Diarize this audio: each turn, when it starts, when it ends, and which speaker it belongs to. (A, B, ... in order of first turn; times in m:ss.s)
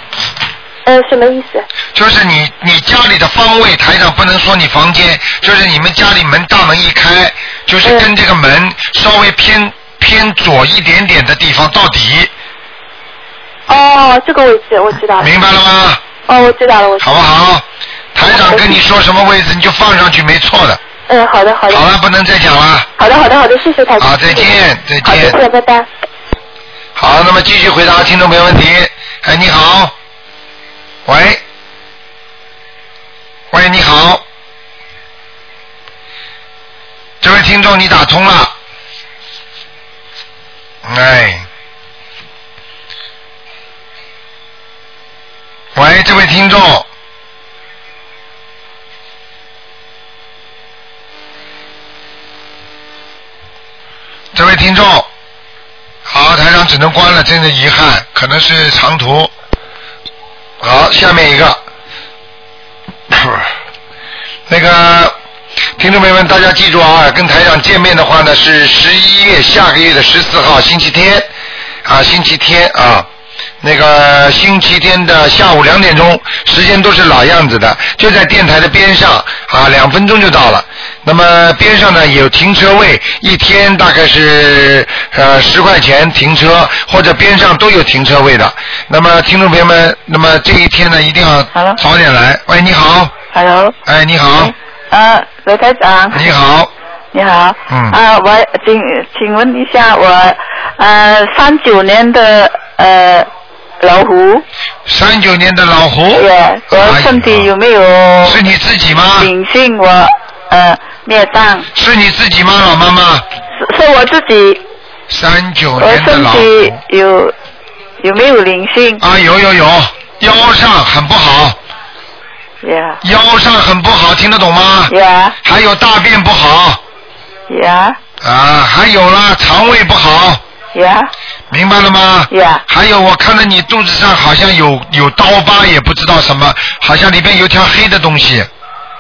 0:00.8-0:01.7 A
0:02.0-0:12.3 B
0:07.8-0:08.1 A
0:13.7-0:15.3 A
0:15.2-0:16.0 B
0:16.3-0:17.3 A
0:17.0-0:20.8 B
0:18.2-0:18.8 A
0:21.1-0:21.9 A
0:21.7-0:22.9 B
0:23.0-0:25.9 A
0:24.0-0:25.4 B
0:27.0-0:29.9 B
0:31.1-0:31.4 B
0:33.5-0:34.2 B
0:37.2-0:38.5 B
0:40.8-0:41.5 B
0:45.8-0:46.9 B
0:54.3-0:55.1 B
0:56.1-0:59.3 B
1:00.6-1:01.6 B
1:04.5-1:05.2 B
1:05.8-1:11.3 B
1:11.8-1:13.1 B
1:13.6-1:33.1 B
1:31.5-1:31.8 C
1:33.3-1:33.8 C
1:33.9-1:34.5 B
1:34.4-1:36.3 C
1:36.1-1:36.7 B
1:37.1-1:43.3 C
1:37.7-1:38.0 B
1:43.8-1:44.4 C
1:44.9-1:47.5 B
1:46.2-1:48.4 C
1:48.2-1:49.3 B
1:49.2-1:51.7 C
1:51.7-1:53.2 B
1:53.6-1:54.6 C
1:55.1-1:56.8 B
1:55.8-1:57.3 C
1:58.0-1:59.0 C
1:59.0-2:01.6 B
2:02.6-2:03.0 C
2:03.0-2:04.9 B
2:04.9-2:05.4 C
2:05.4-2:06.8 B
2:07.5-2:08.0 C
2:08.2-2:10.4 B
2:10.8-2:11.1 C
2:11.5-2:18.5 B
2:12.3-2:12.6 C